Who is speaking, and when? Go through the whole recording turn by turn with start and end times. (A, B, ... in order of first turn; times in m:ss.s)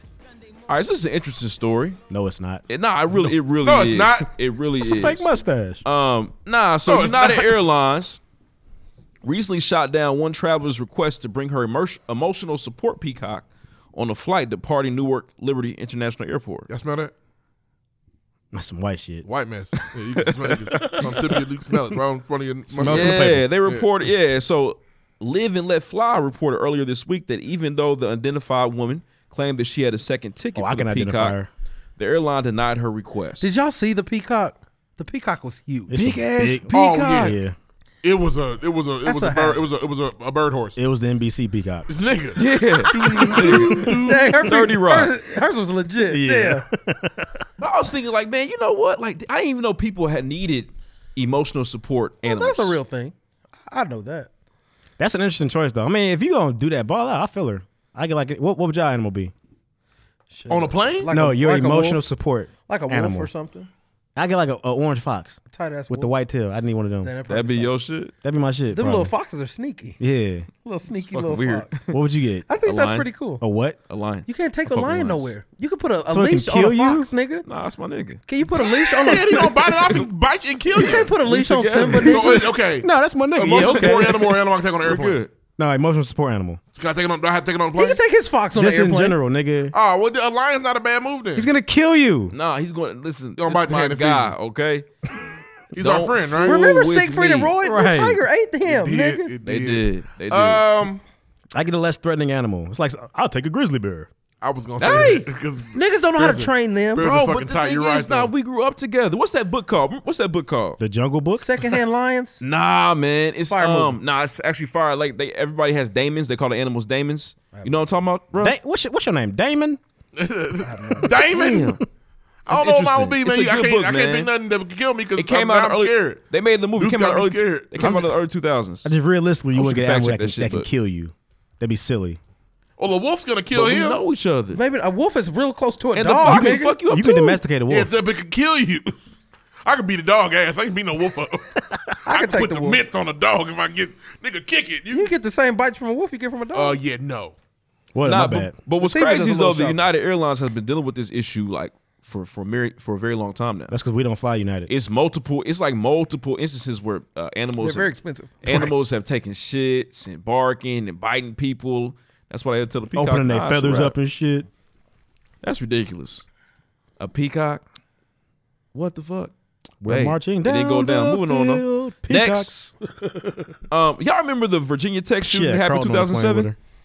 0:00.7-0:02.0 A
0:02.1-0:02.6 B
0:02.7-0:05.3 A
0:03.2-0:04.3 C
0:04.8-0:05.8 B
0:05.8-0:08.2 A
0:06.8-0:07.6 C
0:09.2-0:16.7 A
0:16.7-0:17.1 C
0:18.5-0:19.2 B
0:19.2-0:23.9 C
0:20.2-0:21.4 A
0:22.7-0:23.5 B
0:22.8-0:31.4 A
0:30.6-0:31.5 B
0:32.0-0:33.5 A
0:33.4-0:36.0 D
0:35.9-0:37.5 B
0:35.9-0:37.4 A
0:36.7-0:37.4 C
0:38.0-0:40.8 C
0:39.0-0:39.6 D
0:40.8-0:41.9 B
0:41.9-0:44.5 C
0:42.4-0:45.1 A
0:43.2-0:46.6 D
0:46.0-0:47.4 B
0:47.6-0:52.8 A
0:52.2-0:53.1 D
0:53.7-0:54.3 D
0:55.0-0:59.3 B
1:00.3-1:02.1 D
1:00.5-1:01.1 C
1:01.1-1:03.3 B
1:02.7-1:03.7 D
1:04.2-1:05.4 B
1:05.5-1:06.1 D
1:05.9-1:07.1 B
1:07.0-1:07.7 D
1:07.3-1:08.1 A
1:08.2-1:09.1 B
1:08.7-1:10.0 D
1:10.0-1:10.5 B
1:10.6-1:11.7 D
1:10.9-1:12.0 A
1:11.9-1:12.4 B
1:12.5-1:13.4 D
1:12.6-1:13.1 A
1:13.4-1:13.8 B
1:13.9-1:15.3 A
1:14.2-1:17.4 D
1:16.1-1:17.1 B
1:17.4-1:18.2 A
1:18.3-1:19.8 D
1:19.0-1:21.1 C
1:19.3-1:20.0 A
1:20.7-1:22.6 D
1:21.1-1:22.2 A
1:22.0-1:25.2 C
1:22.8-1:24.4 B
1:23.6-1:24.1 A
1:24.8-1:25.3 A
1:25.6-1:26.6 B
1:26.7-1:28.0 C
1:27.7-1:29.2 D
1:28.5-1:29.7 B
1:29.7-1:31.5 C
1:31.4-1:32.3 B
1:32.3-1:34.8 A
1:33.4-1:34.3 C
1:35.7-1:36.6 C
1:35.8-1:37.5 A
1:36.4-1:39.3 D
1:37.6-1:38.2 B
1:38.6-1:41.0 C
1:39.4-1:40.6 A
1:41.5-1:44.1 B
1:44.4-1:48.3 C
1:44.8-1:45.3 A
1:45.7-1:47.1 D
1:47.0-1:50.8 A
1:50.8-1:51.4 B
1:51.3-1:52.4 D
1:52.4-1:58.6 A
1:53.5-1:54.0 D
1:57.5-1:57.9 D
1:58.4-1:59.8 B
2:00.2-2:01.8 C
2:00.6-2:01.1 D
2:01.2-2:01.8 B
2:01.3-2:01.8 A
2:02.4-2:06.2 C
2:02.5-2:04.3 A
2:05.2-2:08.9 A
2:06.8-2:08.1 C
2:07.8-2:08.1 B
2:08.8-2:12.2 B
2:09.5-2:10.7 A
2:12.8-2:14.0 C
2:13.5-2:14.6 A
2:14.5-2:16.8 D
2:15.9-2:17.4 A
2:16.2-2:17.9 B
2:17.7-2:18.9 C
2:19.6-2:25.1 C
2:22.0-2:22.8 D
2:24.9-2:26.8 D
2:26.5-2:27.3 C
2:27.9-2:28.5 B
2:28.0-2:33.7 A
2:28.8-2:29.8 D
2:33.7-2:34.7 B
2:34.7-2:37.9 A
2:37.6-2:38.7 D
2:38.4-2:43.9 A
2:42.9-2:44.5 B
2:45.4-2:46.2 A
2:47.0-2:47.6 A
2:48.7-2:49.3 A
2:49.8-2:52.7 B
2:49.8-2:52.5 A
2:53.7-2:56.5 A
2:55.2-2:56.6 B